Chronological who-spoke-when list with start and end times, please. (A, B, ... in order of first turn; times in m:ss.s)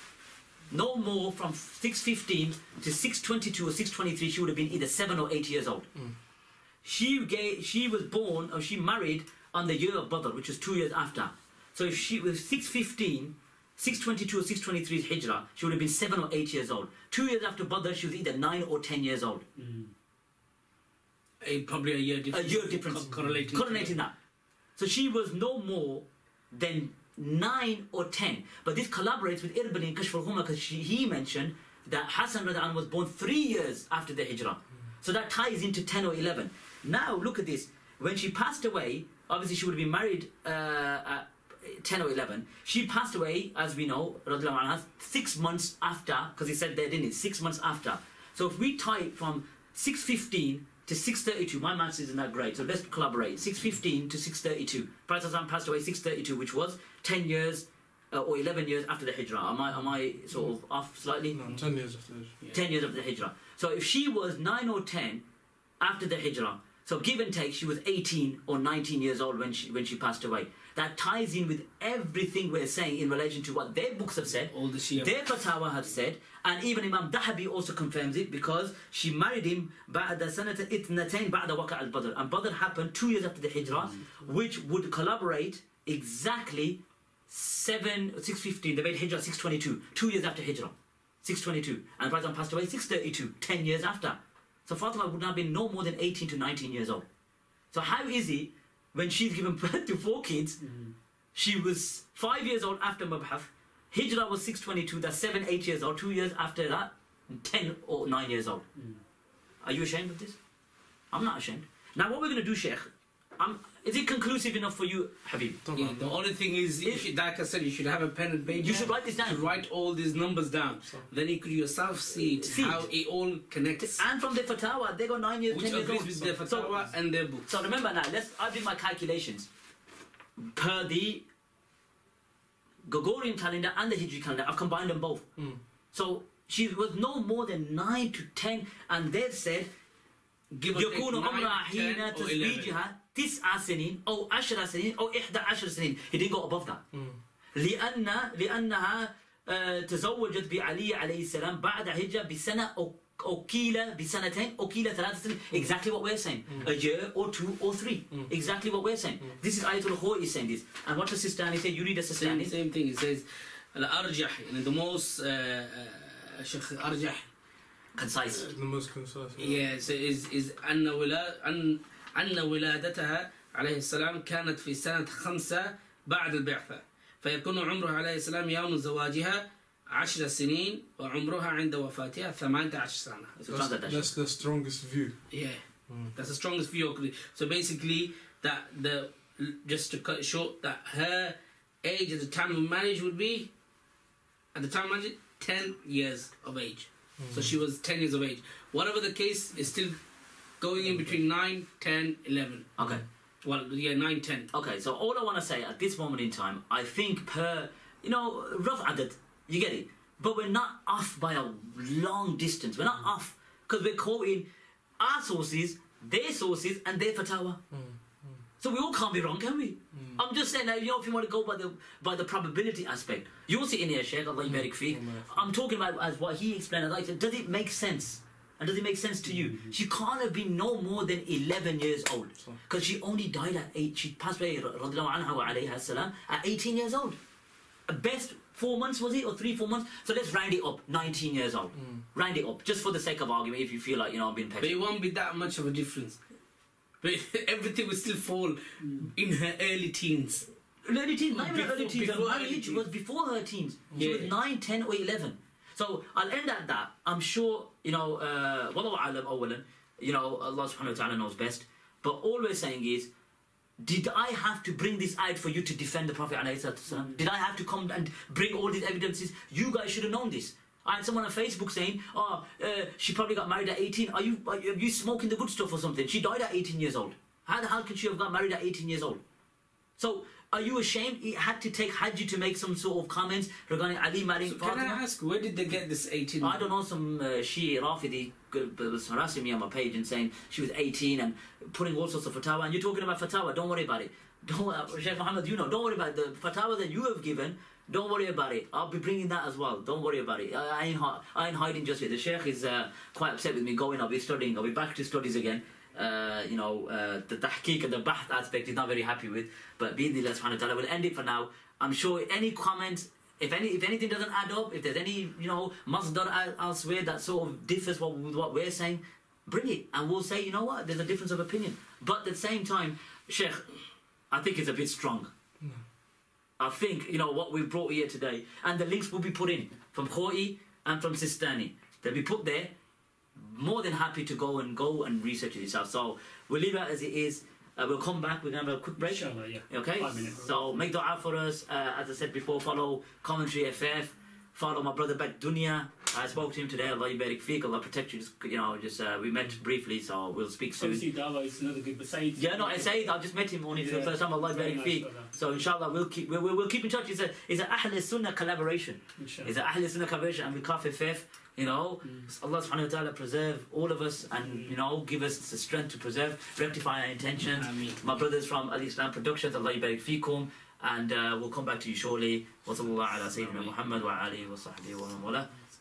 0:00.7-0:05.9 A
0:06.8-0:19.4 A
0:19.6-0:19.9 B
0:21.4-0:24.0 C
0:22.3-0:24.1 A
0:24.8-1:01.4 A
1:01.3-1:02.4 D
1:02.5-1:05.2 A
1:05.8-1:37.0 A
1:14.5-1:15.2 C
1:37.7-1:40.6 A
1:40.6-1:40.9 B
1:41.3-1:48.6 A
1:48.7-1:49.0 B
1:49.6-1:50.4 A
1:51.1-1:55.6 A
1:55.6-1:56.2 D
1:55.7-2:04.0 C
1:58.6-1:59.5 A
2:02.4-2:02.9 A
2:03.9-2:06.8 A
2:05.5-2:07.5 C
2:07.4-2:09.5 A
2:10.4-2:11.2 A
2:12.9-2:15.3 A
2:15.4-2:15.6 D
2:15.9-2:19.7 A
2:20.5-2:22.7 C
2:20.7-2:26.8 A
2:26.9-2:27.2 D
2:27.6-2:42.5 A
2:42.2-2:47.3 C
2:48.0-2:48.5 A
2:48.4-2:49.7 D
2:49.4-3:03.3 C
3:03.4-3:04.1 A
3:03.5-3:05.3 D
3:05.3-3:05.6 C
3:06.1-3:13.5 C
3:14.5-3:20.0 C
3:17.2-3:17.5 D
3:20.6-3:22.7 C
3:22.8-3:23.0 A
3:23.4-3:24.5 C
3:24.5-3:34.5 A
3:35.0-3:37.6 A
3:37.7-3:38.4 D
3:38.6-3:57.2 A
3:39.9-3:40.2 D
3:44.6-3:45.5 D
3:57.9-4:04.8 A
4:01.7-4:02.0 D
4:04.6-4:06.2 C
4:07.0-4:10.5 C
4:08.8-4:09.1 B
4:10.8-4:23.1 A
4:11.3-4:12.8 C
4:13.9-4:14.2 D
4:14.0-4:14.3 C
4:23.8-4:39.2 A
4:26.9-4:27.2 B
4:40.0-4:45.0 A
4:44.4-4:46.6 C
4:46.4-5:23.6 A
5:24.3-5:25.3 A
5:26.6-5:32.7 A
5:33.3-5:51.0 A
5:39.0-5:40.8 B
5:50.8-5:53.2 B
5:52.4-6:15.5 A
5:53.7-5:55.3 B
5:59.2-5:59.5 B
6:04.4-6:04.7 B
6:07.6-6:08.0 C